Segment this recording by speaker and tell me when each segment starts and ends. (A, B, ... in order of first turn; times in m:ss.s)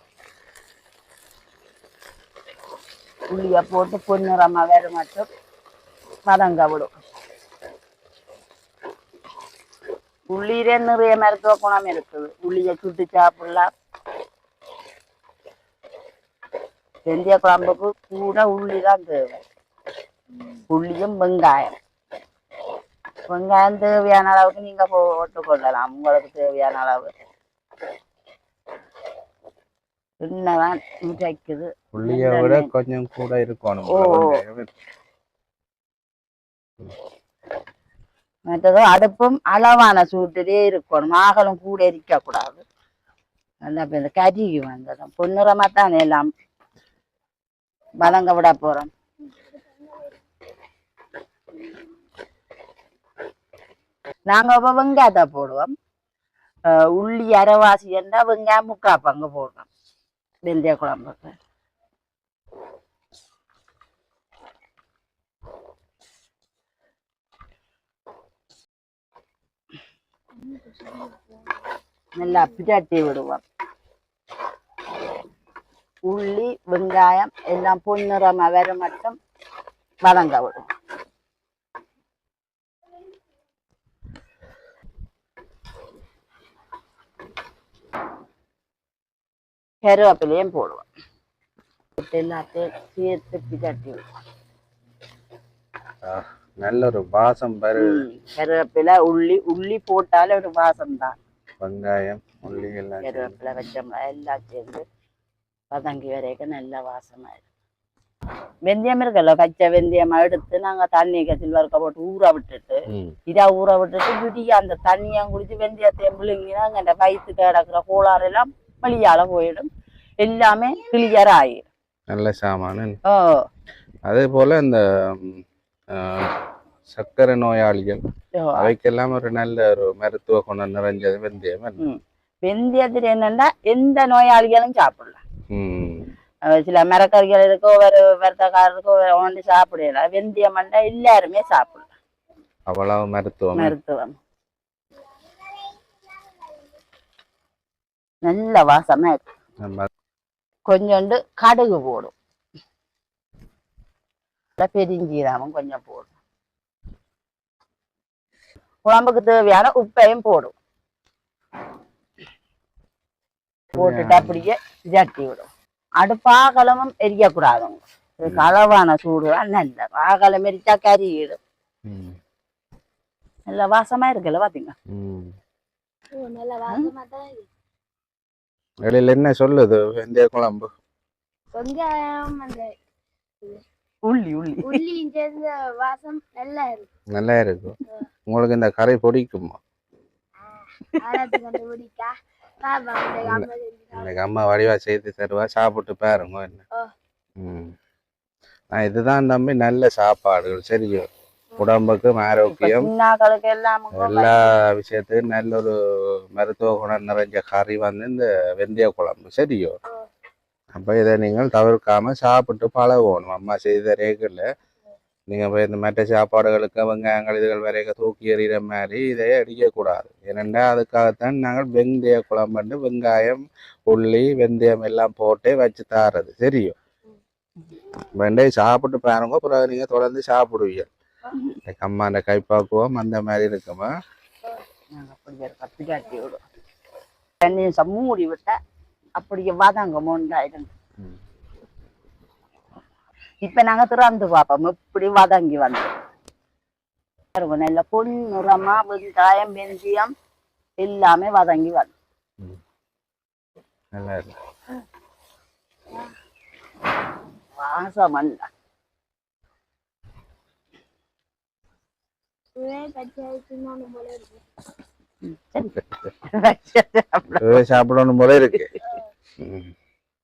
0:03.3-0:05.3 A
0:06.3-0:06.9 A
0:10.3-0:13.7 A
0:17.1-0:19.4 A
0:20.7-0:21.8 A
0:23.3-0:27.1 A
0:30.2-0:32.7 A
0:31.9-0:34.7 B
0:33.9-0:34.4 A
0:38.5-0:42.6 A
0:43.6-0:46.3 A
0:48.0-0:48.9 A
0:54.3-0:55.7 A
0:56.7-0:59.7 A
1:00.4-1:01.4 A
1:10.4-1:11.4 C
1:12.2-1:13.4 A
1:12.2-1:12.5 C
1:16.1-1:19.2 A
1:20.0-1:20.7 A
1:29.8-1:30.8 A
1:32.0-1:34.0 A
1:36.0-1:38.1 B
1:37.8-1:41.2 A
1:41.6-1:43.3 B
1:43.0-1:44.8 A
1:45.7-1:47.4 A
1:48.7-1:59.7 A
1:52.9-1:53.2 B
2:00.2-2:01.7 A
2:02.1-2:03.0 B
2:03.1-2:03.4 A
2:04.1-2:06.4 B
2:06.9-2:08.0 B
2:08.4-2:08.7 A
2:08.6-2:11.8 B
2:11.8-2:15.2 A
2:15.5-2:16.1 B
2:16.5-2:21.9 A
2:22.7-2:23.8 B
2:23.6-2:24.2 A
2:28.2-2:29.2 A
2:29.6-2:29.9 B
2:30.7-2:32.1 A
2:34.6-2:36.1 A
2:38.8-2:40.6 A
2:43.7-2:44.4 B
2:43.8-2:45.5 A
2:46.0-2:51.4 A
2:48.2-2:48.5 B
2:51.8-2:52.2 B
2:53.5-2:54.8 A
2:54.9-2:55.3 B
2:56.1-2:57.5 C
2:58.8-3:00.7 B
3:01.5-3:02.8 C
3:04.1-3:04.8 A
3:04.6-3:06.9 C
3:07.1-3:07.8 B
3:08.3-3:09.6 B
3:10.9-3:14.1 C
3:13.2-3:16.6 B
3:17.4-3:17.7 B
3:18.7-3:22.9 B
3:22.5-3:24.5 A
3:23.9-3:29.8 B
3:30.7-3:34.5 B
3:35.3-3:46.8 B
3:48.2-3:50.9 B
3:51.7-3:53.9 B
3:54.9-3:56.4 A
3:57.4-3:58.5 A
3:59.2-4:00.7 A
4:03.4-4:05.9 A
4:07.4-4:10.1 A
4:10.8-4:11.9 A
4:13.9-4:14.4 B
4:17.6-4:18.5 A
4:22.6-4:24.4 C
4:25.2-4:27.6 A
4:27.4-4:28.7 B
4:29.4-4:29.7 B